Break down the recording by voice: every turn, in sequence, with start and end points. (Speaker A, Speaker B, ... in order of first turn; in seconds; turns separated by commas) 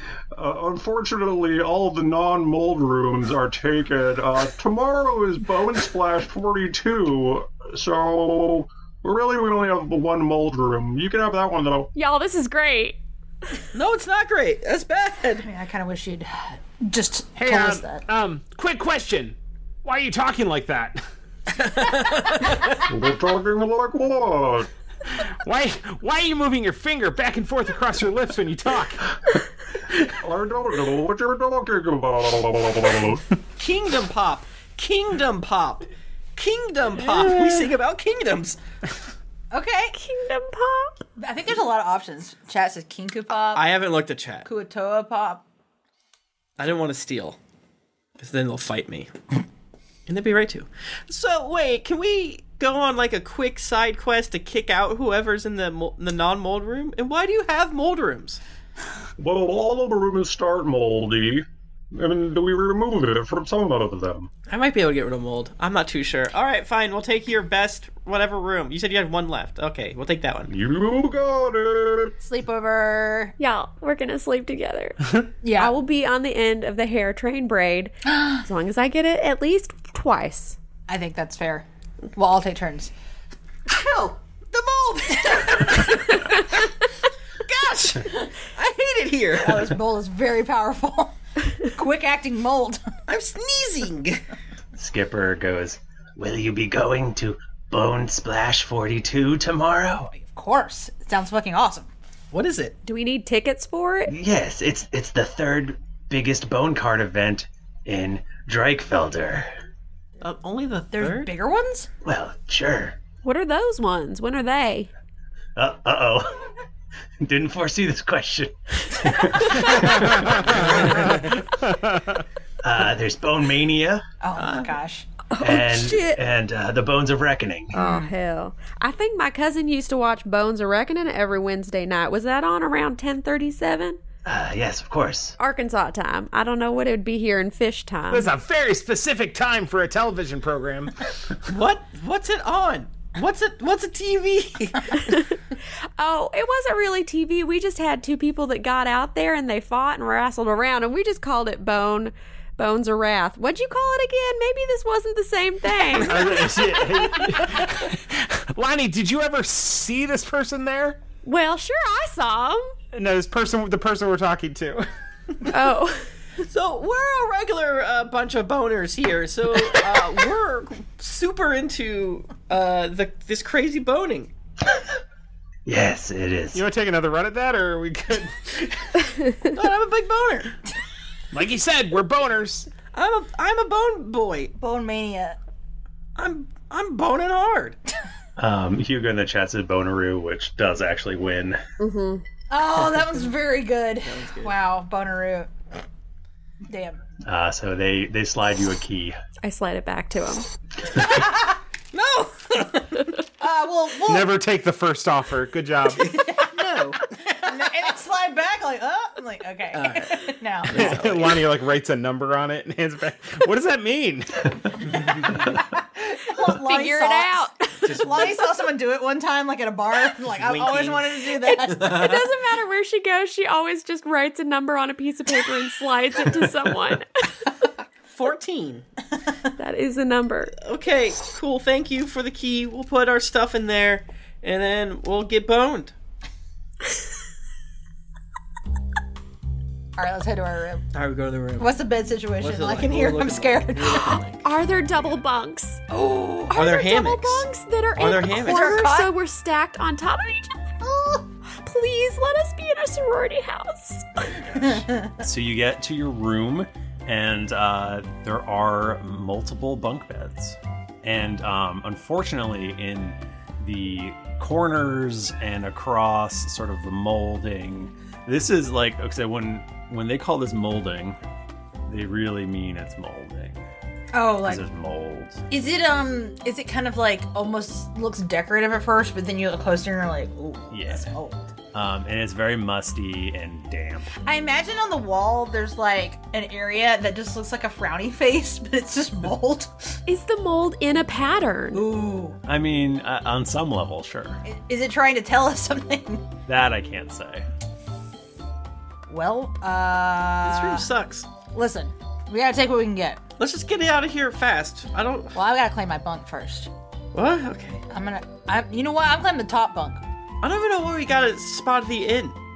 Speaker A: 0.3-11.9, Speaker B: 11.9-13.0, Speaker C: 13.7-15.4, Speaker D: 15.4-18.0, Speaker E: 17.4-21.0, Speaker C: 21.6-22.8, Speaker A: 22.9-24.7, Speaker E: 25.4-29.1, Speaker A: 30.2-33.2, Speaker C: 33.6-38.6, Speaker D: 39.5-40.0, Speaker B: 39.9-40.9, Speaker D: 41.2-43.7, Speaker C: 43.5-44.5, Speaker D: 44.4-45.4, Speaker C: 46.6-47.4, Speaker C: 48.2-49.1, Speaker C: 50.1-58.4, Speaker A: 59.2-64.3, Speaker C: 64.5-70.5, Speaker A: 70.5-72.1, Speaker D: 72.2-73.3, Speaker B: 73.4-80.6, Speaker D: 75.4-75.7, Speaker D: 78.0-78.4, Speaker D: 80.9-82.9, Speaker D: 83.7-86.4, Speaker C: 87.5-89.7, Speaker D: 89.4-92.8, Speaker C: 93.1-94.2, Speaker A: 94.8-100.1, Speaker D: 100.1-101.9, Speaker C: 102.3-102.8, Speaker B: 102.8-104.1, Speaker A: 104.1-109.5, Speaker C: 110.2-111.3, Speaker D: 110.9-111.9, Speaker A: 112.0-113.0, Speaker B: 113.2-114.9, Speaker A: 115.5-116.5, Speaker A: 117.2-120.8, Speaker E: 119.9-122.2, Speaker C: 120.9-121.1, Speaker A: 122.6-124.0, Speaker D: 124.2-125.0, Speaker C: 124.4-124.7, Speaker B: 125.3-126.2, Speaker A: 125.4-127.7, Speaker B: 127.7-134.0, Speaker D: 127.8-128.1, Speaker A: 134.2-135.3, Speaker B: 135.4-138.3, Speaker E: 138.1-141.1, Speaker C: 141.5-145.0, Speaker B: 146.0-157.2, Speaker E: 155.9-161.0, Speaker B: 161.2-162.7, Speaker E: 162.9-164.8, Speaker B: 165.5-166.1, Speaker C: 166.4-174.3, Speaker A: 175.7-176.6, Speaker E: 176.5-179.0, Speaker C: 179.5-180.5, Speaker E: 181.3-182.7, Speaker C: 182.9-184.5, Speaker D: 184.6-185.4, Speaker C: 186.2-187.8, Speaker A: 188.4-191.6, Speaker B: 191.8-192.2, Speaker D: 192.5-195.5, Speaker C: 194.0-194.6, Speaker D: 196.7-197.0, Speaker A: 197.2-199.2, Speaker B: 199.4-200.5, Speaker D: 200.9-201.6, Speaker C: 201.9-203.0, Speaker D: 203.4-204.4, Speaker E: 204.1-206.2, Speaker C: 206.0-207.0, Speaker D: 206.2-206.6, Speaker D: 207.1-210.9, Speaker C: 209.7-211.4, Speaker E: 210.7-215.0, Speaker D: 215.2-222.0, Speaker B: 216.4-218.4, Speaker C: 217.8-218.4, Speaker C: 220.3-222.2, Speaker B: 221.6-227.5, Speaker C: 228.1-228.8, Speaker B: 229.6-230.6, Speaker C: 230.6-235.9, Speaker D: 240.0-240.8, Speaker C: 240.9-241.7, Speaker D: 241.6-244.2, Speaker C: 242.4-245.2, Speaker B: 244.4-245.8, Speaker D: 245.9-246.6, Speaker B: 246.5-250.7, Speaker C: 246.5-248.9, Speaker D: 248.4-249.1, Speaker D: 250.8-251.2, Speaker B: 251.5-254.4, Speaker D: 254.5-255.2, Speaker A: 255.2-271.2, Speaker A: 271.9-273.6, Speaker D: 274.1-274.6, Speaker A: 274.4-275.4, Speaker D: 275.5-281.5, Speaker A: 280.7-281.1, Speaker A: 281.7-284.1, Speaker D: 284.2-289.9, Speaker B: 290.1-291.9, Speaker D: 291.7-292.4, Speaker A: 292.4-294.4, Speaker D: 294.4-296.3, Speaker A: 296.5-297.4, Speaker D: 299.1-300.9, Speaker C: 300.4-301.3, Speaker D: 301.5-303.2, Speaker C: 303.4-305.4, Speaker D: 305.3-306.7, Speaker C: 307.1-307.8, Speaker D: 307.9-310.0, Speaker C: 310.4-312.4